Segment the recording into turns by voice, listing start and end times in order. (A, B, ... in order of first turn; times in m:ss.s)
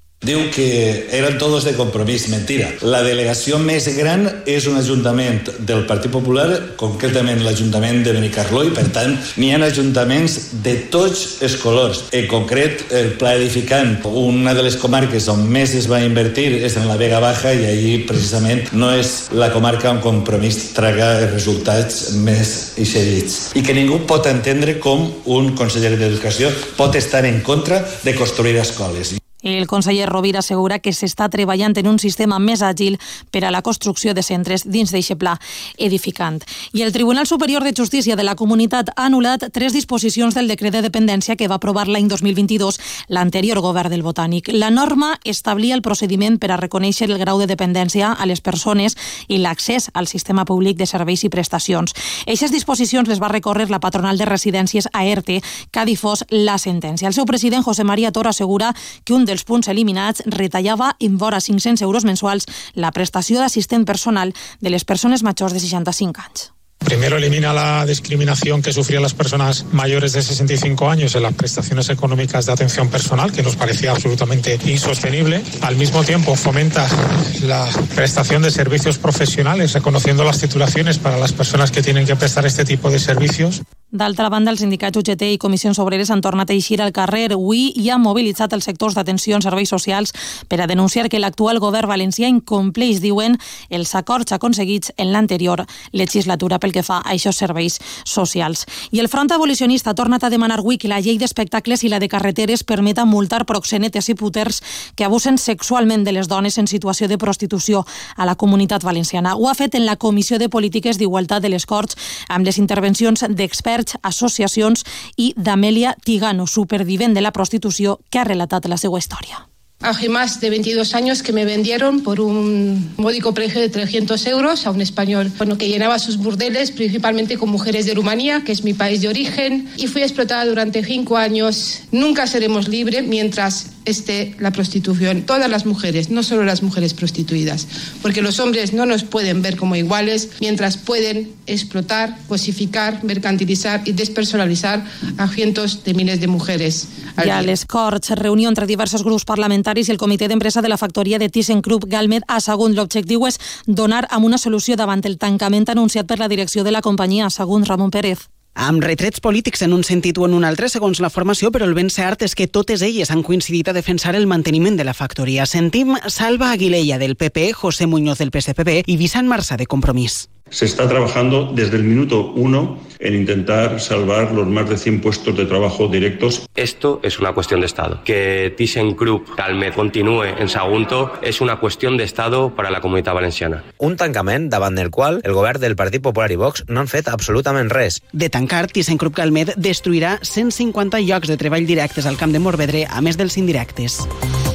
0:00.2-0:29.2 A
0:29.4-1:06.5 B
1:06.8-1:23.6 C
1:23.9-1:59.4 B
1:59.8-2:27.5 D
2:27.2-2:38.2 B
2:38.6-2:50.3 E
2:50.5-2:56.4 F
2:56.5-3:03.6 G
3:03.8-3:08.0 H
3:08.1-3:14.1 E